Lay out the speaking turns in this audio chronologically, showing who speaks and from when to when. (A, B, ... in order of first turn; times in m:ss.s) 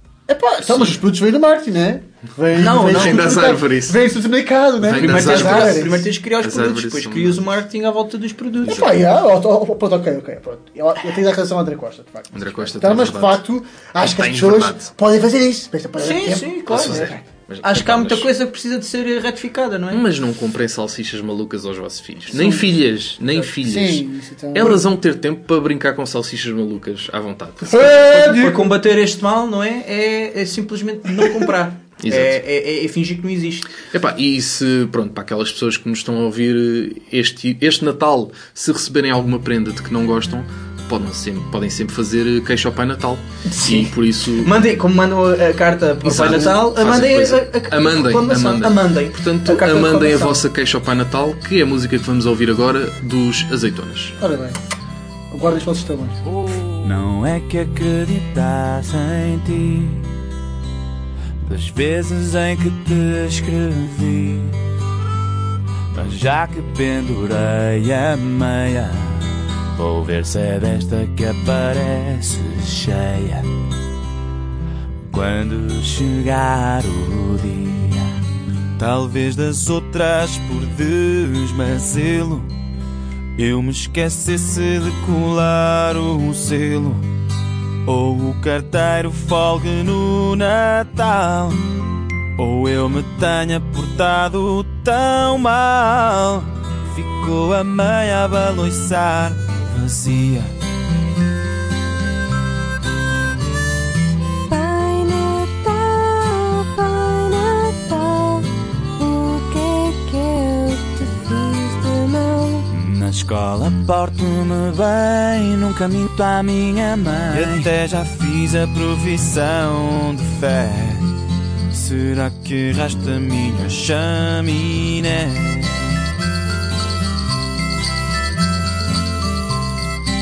0:00.3-0:06.1 A
0:00.6-0:01.0 B
0:02.6-0:03.5 C
0:02.9-0:04.1 B
0:04.8-0:07.6 B
0:04.9-0:08.8 C
0:08.6-0:17.2 A
0:08.6-0:09.0 B
0:12.3-0:13.4 B
0:14.0-0:14.9 B
0:16.0-0:20.0 C
0:16.7-0:18.3 B
0:19.9-0:28.1 B
0:22.3-0:22.6 A
0:23.5-0:24.8 A
0:27.6-0:28.7 A
0:27.8-0:33.7 C
0:32.0-0:32.4 B
0:33.9-0:44.5 B
0:43.5-0:50.3 C
0:46.0-0:54.1 B
0:46.1-0:46.6 A
0:54.2-0:54.6 A
0:55.3-0:56.2 A
0:56.8-1:00.0 D
1:01.4-1:04.6 D
1:05.9-1:09.2 D
1:09.7-1:13.4 D
1:15.1-1:18.1 D
1:18.8-1:22.5 D
1:23.4-1:27.0 D
1:27.9-1:31.6 D
1:32.4-1:40.5 D
1:44.5-1:52.7 E
1:52.7-2:01.0 D
2:01.7-2:05.6 D